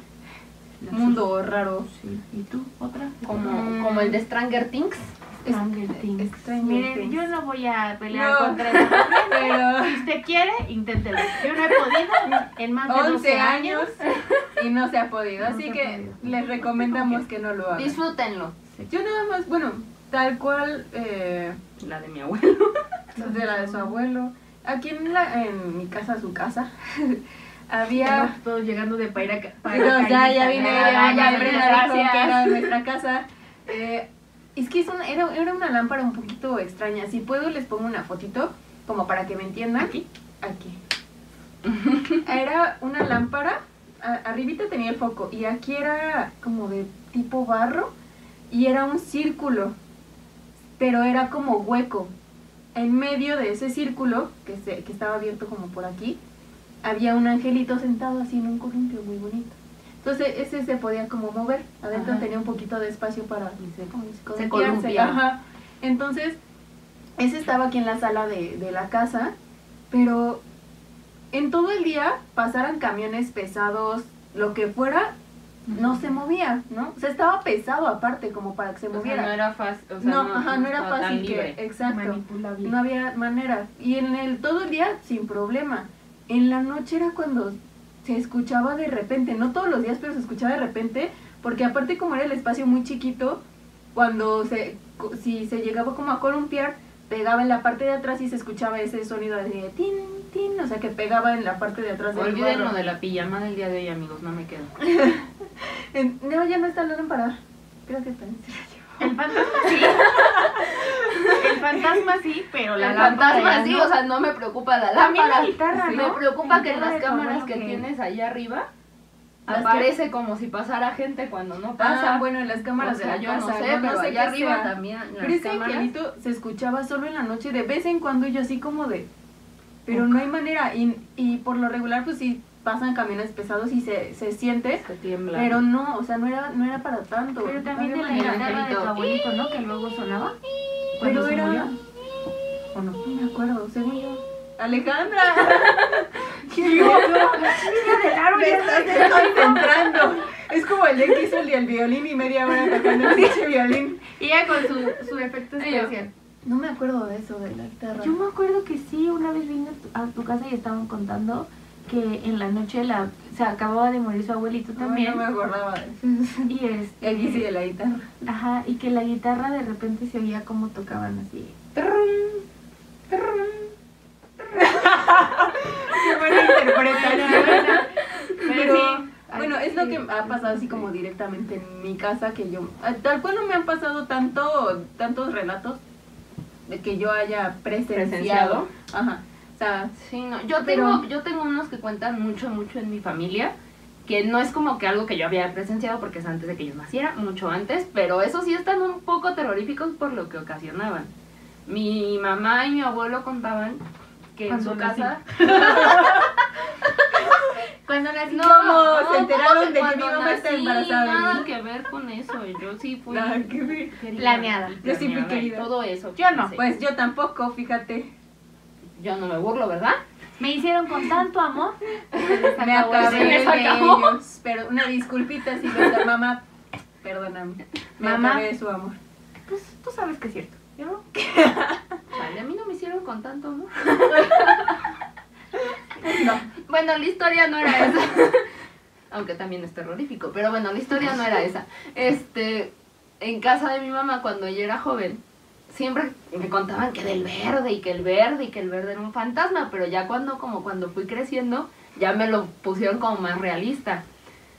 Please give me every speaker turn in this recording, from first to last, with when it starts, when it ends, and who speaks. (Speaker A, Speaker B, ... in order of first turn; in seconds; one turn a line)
Speaker A: 0.8-1.2
Speaker B: 0.9-1.9
Speaker A: 1.9-3.5
Speaker C: 3.2-5.1
Speaker B: 3.4-4.2
Speaker B: 5.4-7.2
Speaker A: 5.4-14.0
Speaker B: 8.1-8.8
Speaker B: 9.3-10.1
Speaker B: 12.2-18.0
Speaker C: 14.0-14.4
Speaker A: 15.4-16.4
Speaker C: 16.9-17.2
Speaker C: 17.7-18.5
Speaker B: 18.9-21.6
Speaker C: 21.8-23.0
Speaker B: 23.1-28.3
Speaker A: 27.9-32.1
Speaker B: 29.6-40.8
Speaker C: 29.7-30.0
Speaker C: 30.5-32.7
Speaker A: 39.8-40.0
Speaker C: 41.6-42.2
Speaker B: 42.2-47.9
Speaker B: 48.5-49.7
Speaker B: 50.8-52.1
Speaker B: 52.7-56.2
Speaker B: 56.8-66.4
Speaker C: 61.9-62.2
Speaker C: 63.6-65.2
Speaker B: 67.2-69.3
Speaker B: 69.9-70.4
Speaker B: 71.3-75.1
Speaker B: 75.7-79.3
Speaker C: 78.9-81.5
Speaker B: 80.0-93.4
Speaker A: 81.8-82.7
Speaker B: 93.9-102.7
Speaker C: 102.1-104.7
Speaker B: 104.8-109.7
Speaker A: 109.0-110.2
Speaker C: 110.0-110.2
Speaker B: 110.8-111.3
Speaker A: 111.3-113.9
Speaker C: 112.8-118.7
Speaker A: 115.0-117.8
Speaker C: 119.5-122.2
Speaker B: 119.5-119.9
Speaker B: 121.8-129.1
Speaker C: 122.8-125.9
Speaker B: 129.8-138.5
Speaker A: 129.9-130.2
Speaker C: 134.8-135.6
Speaker A: 137.4-140.3
Speaker C: 138.1-139.2
Speaker A: 141.0-141.7
Speaker B: 141.0-141.7
Speaker A: 142.7-143.0
Speaker B: 143.0-154.0
Speaker C: 145.4-146.0
Speaker A: 146.5-149.7
Speaker C: 146.8-147.1
Speaker A: 154.1-156.1
Speaker C: 155.6-155.9
Speaker B: 156.4-158.2
Speaker A: 158.0-165.2
Speaker B: 164.8-168.1
Speaker A: 166.5-167.4
Speaker A: 168.2-171.5
Speaker C: 171.7-172.4
Speaker C: 173.1-173.7
Speaker B: 174.6-177.8
Speaker A: 176.3-180.8
Speaker C: 177.2-178.3
Speaker B: 178.4-185.8
Speaker B: 186.7-189.9
Speaker C: 187.9-188.7
Speaker C: 189.9-193.5
Speaker B: 190.6-191.0
Speaker C: 194.1-201.1
Speaker C: 201.7-203.8
Speaker C: 204.3-206.3
Speaker A: 204.5-206.3
Speaker A: 207.9-208.8
Speaker C: 208.3-216.6
Speaker B: 208.4-211.5
Speaker B: 213.1-214.0
Speaker A: 214.2-214.8
Speaker B: 214.8-215.7
Speaker A: 216.2-216.5
Speaker B: 216.6-218.1
Speaker C: 219.0-220.0
Speaker A: 220.4-223.8
Speaker C: 222.1-224.2
Speaker B: 222.6-226.4
Speaker B: 227.0-229.0
Speaker A: 228.0-228.4
Speaker A: 229.5-231.7
Speaker C: 232.1-234.8
Speaker B: 236.0-236.5
Speaker C: 236.7-238.5
Speaker C: 239.1-254.0